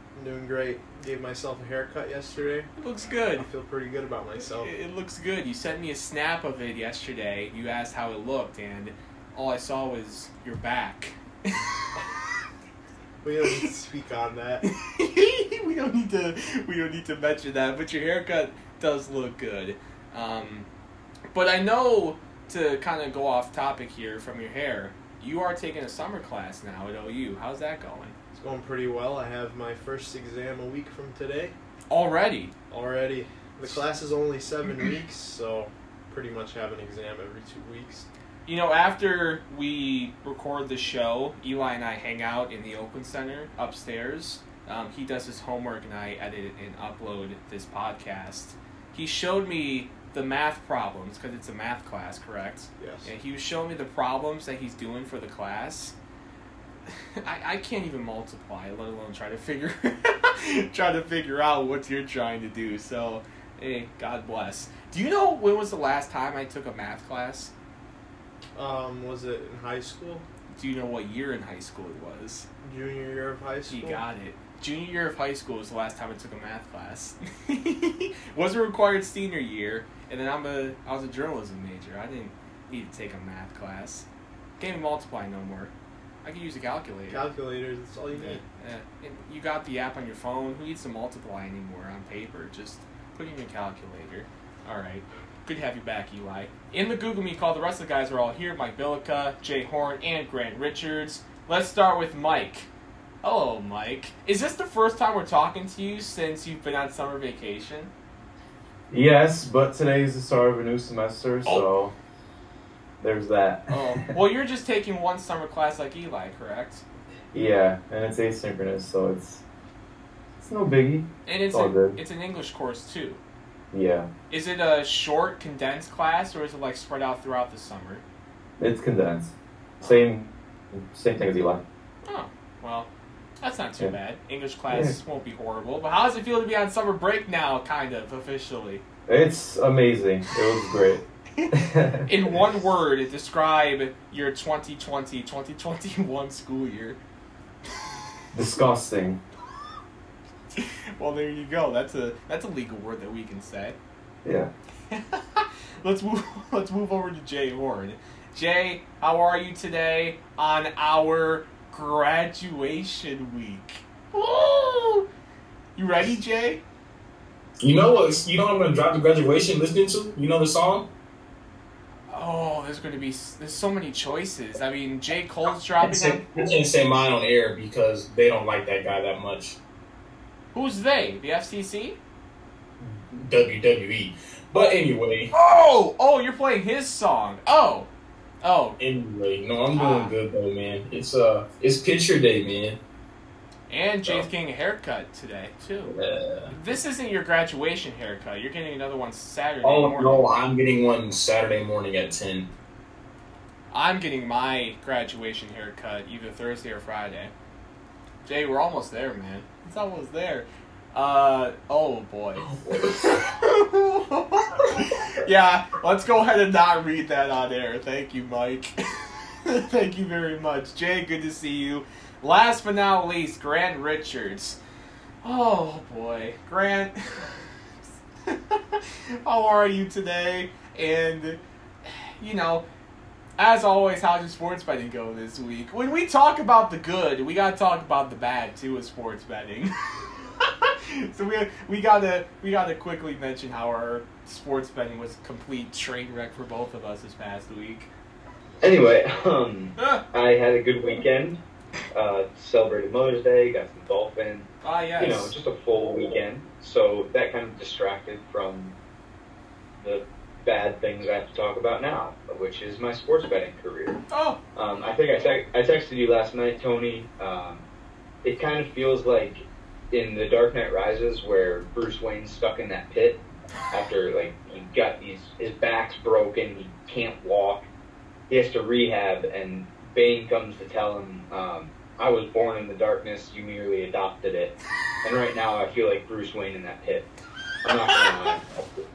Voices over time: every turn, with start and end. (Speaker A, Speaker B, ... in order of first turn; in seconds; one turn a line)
Speaker A: 0.1-2.7
Speaker B: 2.8-3.5
Speaker A: 3.3-4.7
Speaker B: 4.4-11.9
Speaker A: 13.2-14.6
Speaker B: 14.6-20.7
Speaker B: 21.3-28.2
Speaker A: 28.3-31.6
Speaker B: 31.9-32.5
Speaker A: 32.7-38.1
Speaker B: 38.5-56.0
Speaker A: 52.8-53.1
Speaker B: 56.9-67.5
Speaker A: 68.6-70.2
Speaker B: 70.6-72.5
Speaker A: 72.6-74.0
Speaker B: 73.7-84.1
Speaker B: 84.6-85.7
Speaker B: 86.2-87.3
Speaker A: 87.1-88.4
Speaker B: 88.1-102.7
Speaker B: 103.2-107.9
Speaker C: 108.9-111.9
Speaker B: 111.5-111.7
Speaker C: 113.0-114.2
Speaker B: 113.7-116.8
Speaker C: 117.3-119.4
Speaker C: 120.4-122.0
Speaker B: 121.3-123.2
Speaker C: 123.7-124.1
Speaker B: 124.3-128.0
Speaker C: 128.6-131.6
Speaker B: 132.1-132.9
Speaker B: 133.4-138.8
Speaker C: 134.7-135.0
Speaker C: 139.1-142.1
Speaker B: 142.1-147.0
Speaker C: 148.3-149.2
Speaker B: 150.6-153.8
Speaker C: 154.2-154.5
Speaker B: 154.9-165.1
Speaker B: 165.8-166.6
Speaker D: 167.6-170.9
Speaker B: 172.1-176.2
Speaker D: 175.8-179.6
Speaker B: 180.5-182.0
Speaker D: 182.8-185.3
Speaker B: 185.3-187.9
Speaker B: 188.4-188.8
Speaker D: 188.8-192.8
Speaker B: 189.7-190.2
Speaker B: 193.7-195.9
Speaker D: 195.9-196.5
Speaker B: 196.5-200.2
Speaker D: 199.6-202.5
Speaker B: 203.7-207.3
Speaker B: 208.3-224.6
Speaker D: 212.4-213.3
Speaker B: 225.2-227.5
Speaker B: 228.3-232.7
Speaker B: 233.4-247.9
Speaker E: 248.6-251.4
Speaker B: 249.8-250.0
Speaker E: 251.9-258.8
Speaker B: 254.6-255.3
Speaker E: 259.8-264.0
Speaker B: 264.1-264.4
Speaker E: 264.6-267.6
Speaker E: 268.2-277.7
Speaker E: 278.3-287.1
Speaker E: 287.6-288.6